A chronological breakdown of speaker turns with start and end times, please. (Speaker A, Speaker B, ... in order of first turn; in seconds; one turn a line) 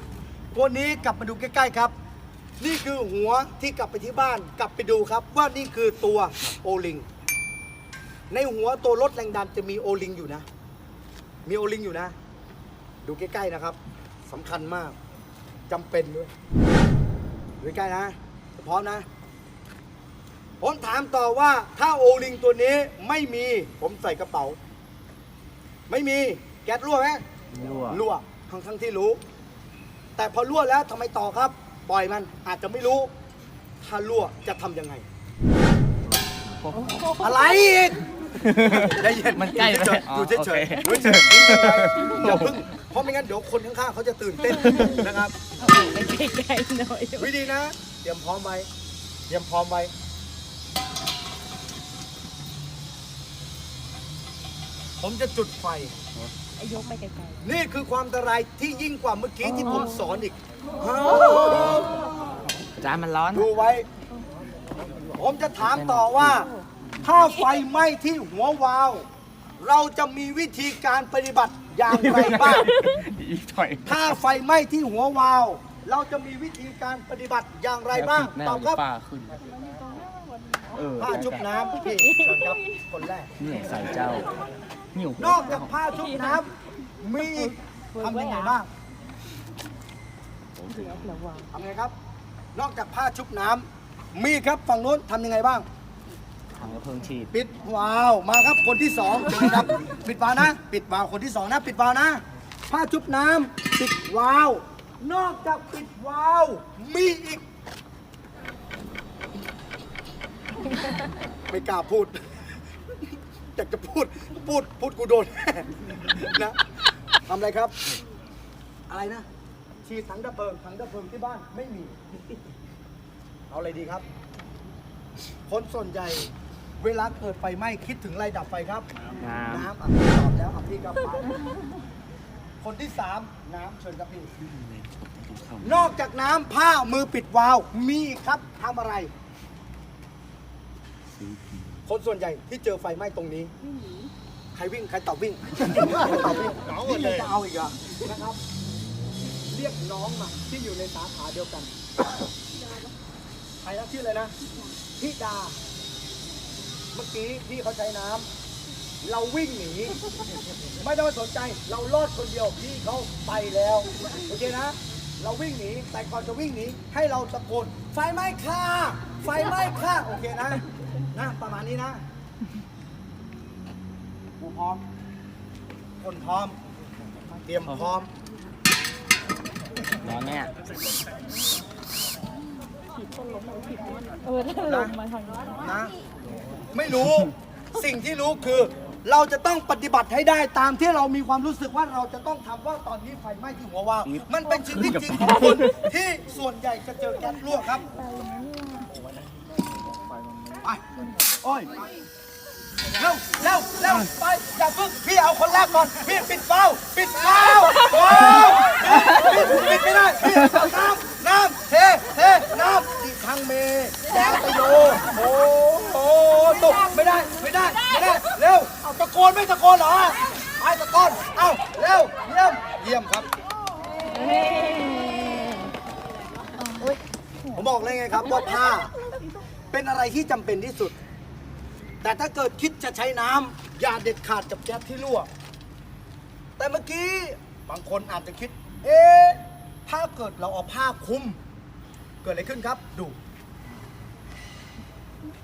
Speaker A: 0.5-1.9
Speaker A: 2.6-7.0
Speaker A: 8.3-10.4
Speaker A: 11.4-12.1
Speaker A: 13.0-15.0
Speaker A: 15.7-16.3
Speaker A: 17.6-19.1
Speaker A: 20.6-24.6
Speaker A: 25.9-27.2
Speaker B: 27.5-28.0
Speaker A: 27.9-29.2
Speaker A: 30.1-33.1
Speaker A: 33.8-35.0
Speaker B: 36.6-37.0
Speaker C: 36.8-37.4
Speaker A: 37.2-45.4
Speaker B: 38.4-42.6
Speaker B: 44.6-45.0
Speaker C: 45.6-47.3
Speaker A: 47.2-48.7
Speaker A: 49.3-49.9
Speaker A: 55.0-55.9
Speaker C: 56.6-57.4
Speaker A: 57.4-62.0
Speaker B: 62.7-63.5
Speaker A: 63.3-63.9
Speaker A: 65.1-69.1
Speaker B: 65.5-66.5
Speaker A: 69.6-72.7
Speaker B: 71.9-74.2
Speaker A: 73.8-78.8
Speaker B: 77.9-79.4
Speaker B: 80.7-81.5
Speaker A: 81.0-83.3
Speaker C: 81.9-82.5
Speaker B: 83.4-84.3
Speaker B: 84.9-85.7
Speaker A: 85.2-88.7
Speaker C: 87.3-88.5
Speaker B: 90.5-91.2
Speaker C: 90.7-91.5
Speaker A: 91.5-91.9
Speaker A: 92.5-95.7
Speaker B: 96.5-97.3
Speaker A: 97.3-107.4
Speaker A: 111.5-112.5
Speaker A: 113.5-116.6
Speaker A: 117.3-117.7
Speaker A: 118.9-119.3
Speaker A: 119.8-122.3
Speaker A: 123.5-124.0
Speaker A: 125.5-128.9
Speaker B: 129.2-129.7
Speaker A: 129.5-131.3
Speaker A: 132.6-134.3
Speaker B: 134.4-135.9
Speaker A: 135.6-139.1
Speaker B: 141.2-141.8
Speaker A: 141.9-143.5
Speaker A: 144.5-148.4
Speaker B: 146.7-147.1
Speaker A: 149.5-151.7
Speaker A: 153.6-154.3
Speaker A: 155.0-155.6
Speaker A: 156.9-158.3
Speaker A: 159.0-160.0
Speaker A: 160.8-172.0
Speaker A: 174.4-174.8
Speaker A: 176.0-176.6
Speaker A: 177.4-178.1
Speaker B: 180.0-180.5
Speaker C: 183.2-185.4
Speaker A: 184.6-185.0
Speaker A: 185.5-185.9
Speaker A: 186.7-197.9
Speaker B: 194.2-195.7
Speaker C: 198.3-198.8
Speaker A: 200.6-201.9
Speaker A: 203.0-223.3
Speaker C: 224.2-225.6
Speaker C: 226.7-227.0
Speaker A: 227.5-228.9
Speaker A: 229.7-231.0
Speaker A: 232.0-235.3
Speaker A: 236.6-241.4
Speaker A: 242.2-243.2